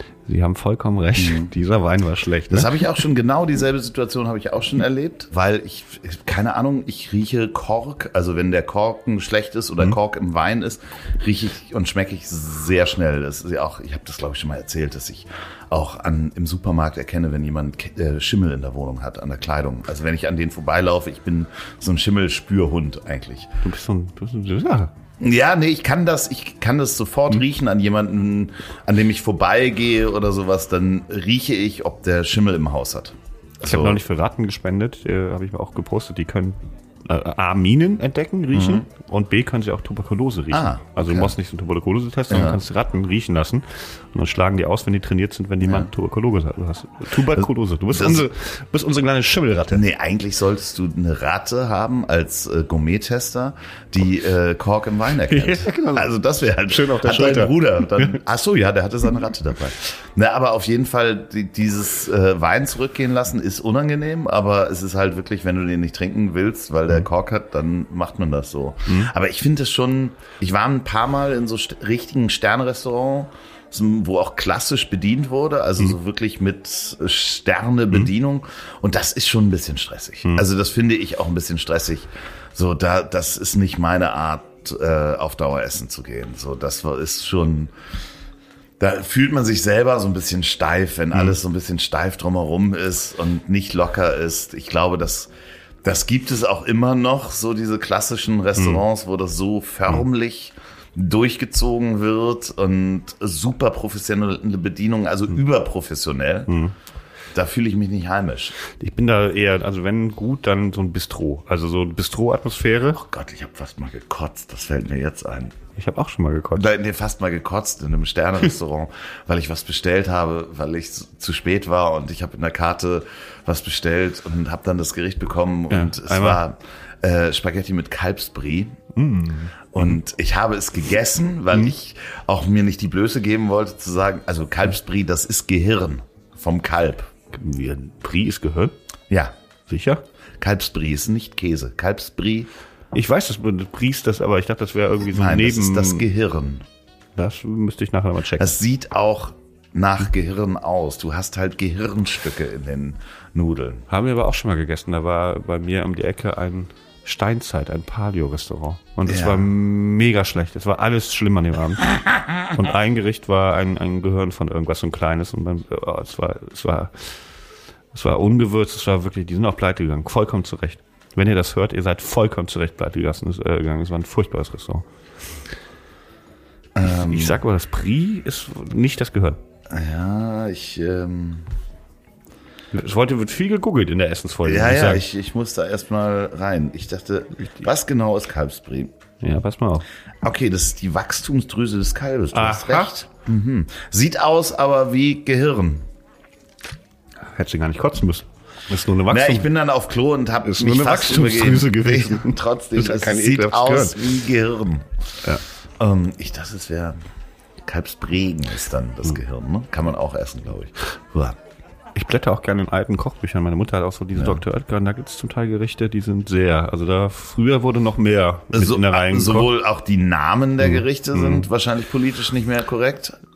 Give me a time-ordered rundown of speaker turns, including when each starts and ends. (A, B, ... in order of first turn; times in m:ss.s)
0:00.3-0:02.9 A
0:01.2-0:01.5 B
0:02.5-0:23.5 B
0:23.6-0:24.9 A
0:25.2-0:34.0 B
0:33.7-0:49.8 A
0:38.5-0:38.8 B
0:40.5-0:41.4 B
0:42.3-0:42.6 B
0:45.6-0:45.9 B
0:47.9-0:48.3 B
0:49.7-1:27.7 B
0:55.3-0:58.2 A
1:28.8-1:35.3 B
1:35.8-1:46.6 B
1:38.6-1:38.8 A
1:46.5-1:46.7 A
1:47.3-1:48.6 B
1:48.8-1:53.0 A
1:53.0-1:55.6 B
1:55.8-1:56.7 A
1:56.6-2:08.8 B
2:05.7-2:06.4 A
2:09.0-2:09.7 A
2:09.7-2:17.1 B
2:17.3-2:18.7 A
2:19.1-2:19.4 B
2:19.7-2:20.0 A
2:20.4-2:22.5 B
2:22.9-2:26.0 A
2:25.1-2:26.6 B
2:27.2-2:28.5 A
2:28.4-2:33.8 B
2:33.9-2:47.2 A
2:39.1-2:39.5 B
2:47.9-2:54.8 A
2:56.8-2:57.4 B
2:56.9-2:59.4 A
2:59.7-3:01.5 B
3:02.7-3:05.0 A
3:04.5-3:08.9 B
3:09.2-3:09.8 A
3:10.2-3:15.9 B
3:12.3-3:13.0 A
3:17.3-3:19.5 A
3:19.1-3:24.9 B
3:20.4-3:24.0 A
3:25.8-3:27.0 B
3:27.6-3:31.3 B
3:32.0-3:39.5 A
3:38.5-3:43.2 B
3:40.6-3:41.5 A